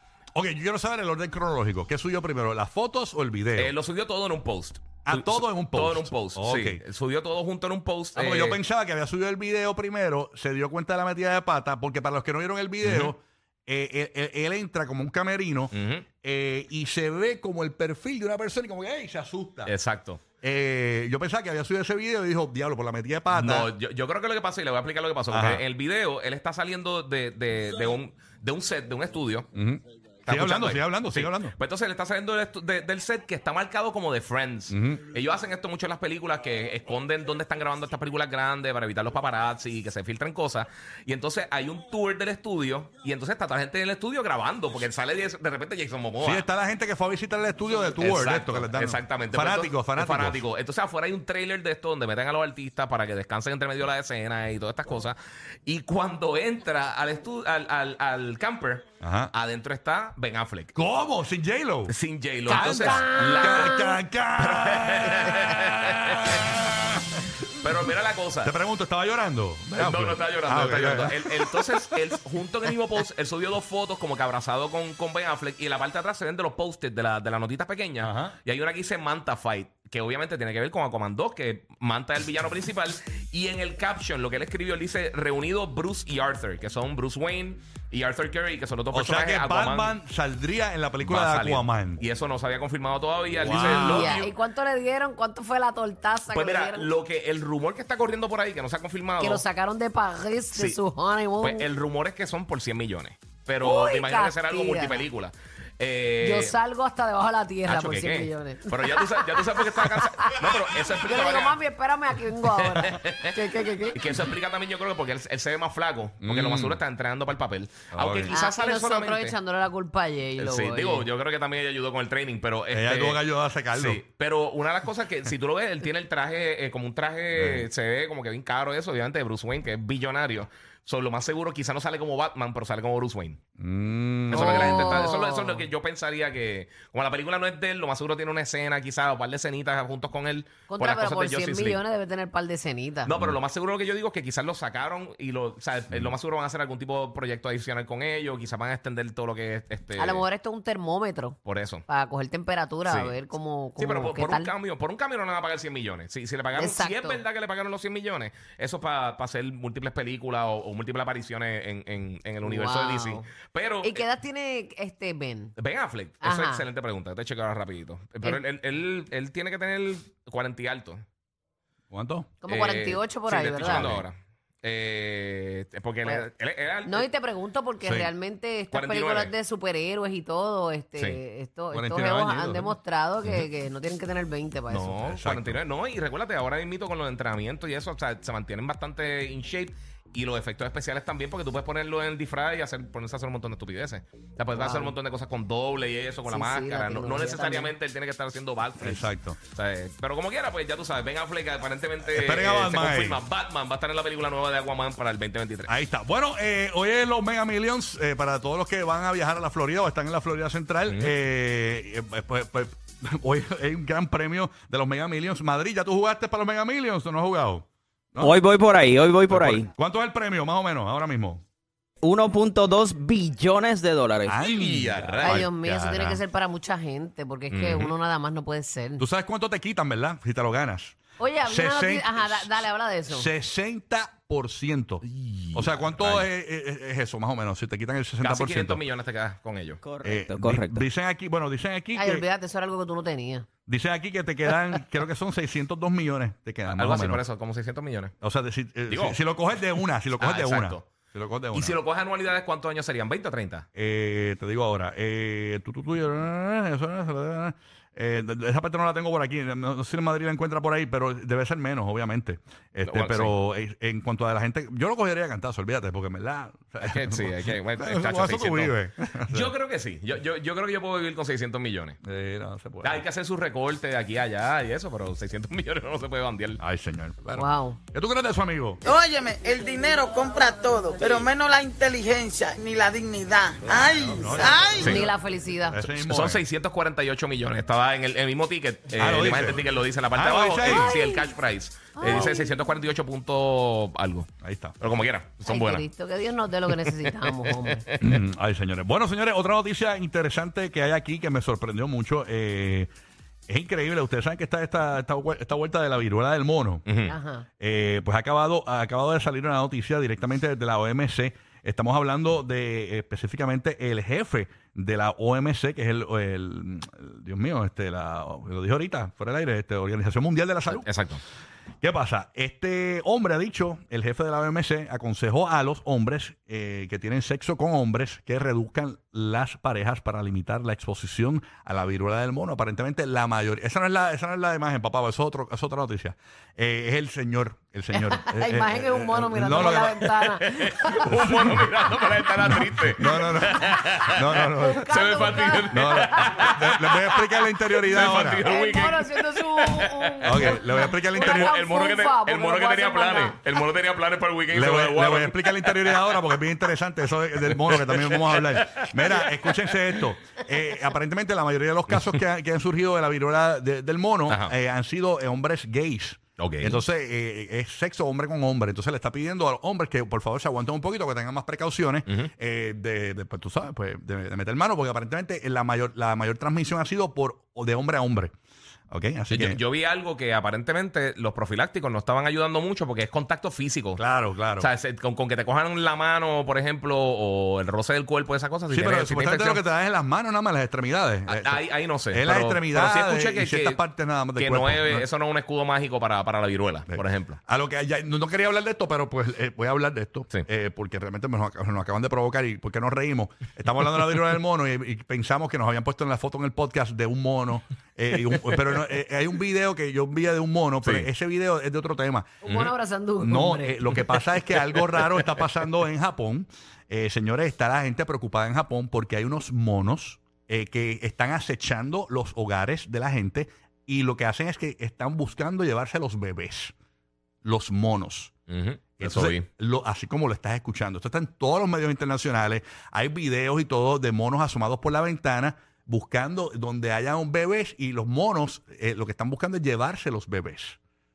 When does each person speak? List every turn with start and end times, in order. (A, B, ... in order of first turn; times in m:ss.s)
0:00.3-0:03.7 A
0:03.6-0:08.6 B
0:05.0-0:06.8 A
0:08.1-0:19.7 A
0:12.8-0:13.1 B
0:15.7-0:16.0 B
0:19.6-0:20.2 B
0:20.4-0:23.7 A
0:23.3-0:29.5 B
0:25.3-0:25.6 A
0:29.5-0:31.6 A
0:30.2-0:46.4 B
0:34.7-0:35.0 A
0:46.2-0:50.4 A
0:48.0-1:00.7 B
0:59.0-0:59.3 A
1:00.7-1:01.9 A
1:01.9-1:06.5 B
1:02.5-1:04.0 C
1:02.5-1:07.2 A
1:07.5-1:08.5 B
1:08.4-1:12.0 A
1:09.8-1:30.0 B
1:18.0-1:18.3 A
1:28.9-1:32.0 A
1:31.0-1:34.3 B
1:33.3-1:34.2 A
1:33.5-1:36.9 C
1:36.3-1:39.4 B
1:39.2-1:41.7 C
1:41.4-1:46.5 B
1:43.6-1:45.0 C
1:46.2-1:54.2 C
1:47.6-1:51.6 B
1:52.7-1:53.4 B
1:53.9-1:59.4 B
1:56.2-1:56.8 A
1:57.9-1:58.4 A
1:58.3-2:01.0 C
2:00.4-2:13.4 B
2:02.7-2:04.0 A
2:07.3-2:07.7 A
2:13.6-2:15.1 A
2:14.3-2:21.8 B
2:14.3-2:15.6 C
2:20.7-2:23.1 C
2:23.0-2:30.2 B
2:30.0-2:34.5 C
2:31.4-2:31.8 B
2:32.8-2:33.1 B
2:33.8-2:44.0 B
2:36.5-2:37.2 C
2:42.4-2:43.3 C
2:43.8-2:45.5 C
2:45.6-2:51.0 B
2:46.2-2:46.6 C
2:51.9-2:52.3 A
2:52.4-2:54.0 C
2:52.4-2:57.1 B
2:53.6-2:54.0 A
2:56.8-3:05.1 C
2:57.8-2:58.1 A
2:58.7-2:59.3 B
3:01.7-3:02.7 A
3:04.7-3:25.7 B
3:05.0-3:05.6 A
3:14.5-3:15.0 C
3:16.3-3:17.7 C
3:18.8-3:19.4 A
3:22.0-3:23.2 A
3:25.7-3:38.4 A
3:30.9-3:31.1 B
3:38.2-3:39.7 D
3:39.3-3:41.4 A
3:42.0-3:44.4 D
3:44.2-3:46.2 A
3:44.4-3:45.4 B
3:45.2-3:49.0 C
3:47.5-3:47.9 B
3:49.0-3:58.8 A
3:51.2-3:53.3 C
3:55.0-3:56.3 B
3:58.2-3:59.8 B
3:59.8-4:00.8 D
4:00.0-4:02.2 A
4:02.0-4:03.5 C
4:03.7-4:07.2 A
4:06.7-4:08.1 B
4:08.2-4:11.8 A
4:08.9-4:09.2 B
4:10.2-4:10.9 B
4:11.5-4:13.6 B
4:13.8-4:29.5 A
4:22.8-4:23.3 B
4:26.8-4:32.0 B
4:32.0-4:33.0 A
4:32.8-4:36.6 B
4:36.6-4:38.8 A
4:37.3-4:37.8 C
4:38.8-4:44.9 E
4:43.8-4:45.1 A
4:44.3-4:45.9 C
4:44.8-4:45.1 B
4:45.7-4:46.4 A
4:45.9-4:54.3 B
4:49.0-4:49.6 A
4:50.1-4:50.9 A
4:50.6-4:51.3 C
4:52.0-4:52.6 C
4:54.4-4:54.7 A
4:54.8-4:55.8 B
4:55.4-4:57.8 C
4:56.7-4:57.8 B
4:58.0-5:02.9 A
5:03.5-5:06.8 A
5:06.8-5:07.1 B
5:07.1-5:07.4 C
5:07.6-5:20.9 A
5:20.7-5:21.2 B
5:21.8-5:40.2 A
5:37.9-5:41.3 C
5:40.4-5:56.3 B
5:41.1-5:41.6 A
5:42.5-5:44.8 A
5:43.4-5:46.6 C
5:45.7-5:48.4 A
5:48.4-5:53.4 C
5:50.2-5:51.6 A
5:54.5-6:18.3 A
5:57.4-6:00.1 B
6:01.9-6:02.2 B
6:04.3-6:04.5 B
6:06.4-6:06.8 B
6:18.9-6:19.6 A
6:19.3-6:24.0 B
6:24.0-6:24.7 A
6:24.6-6:29.6 B
6:28.7-6:35.0 A
6:31.3-6:33.8 B
6:34.4-6:37.4 B
6:36.9-6:52.5 A
6:50.8-6:51.1 B
6:52.4-6:54.1 C
6:52.4-6:52.7 B
6:53.2-7:06.7 A
7:07.4-7:08.3 A
7:08.5-7:09.5 B
7:09.0-7:20.8 A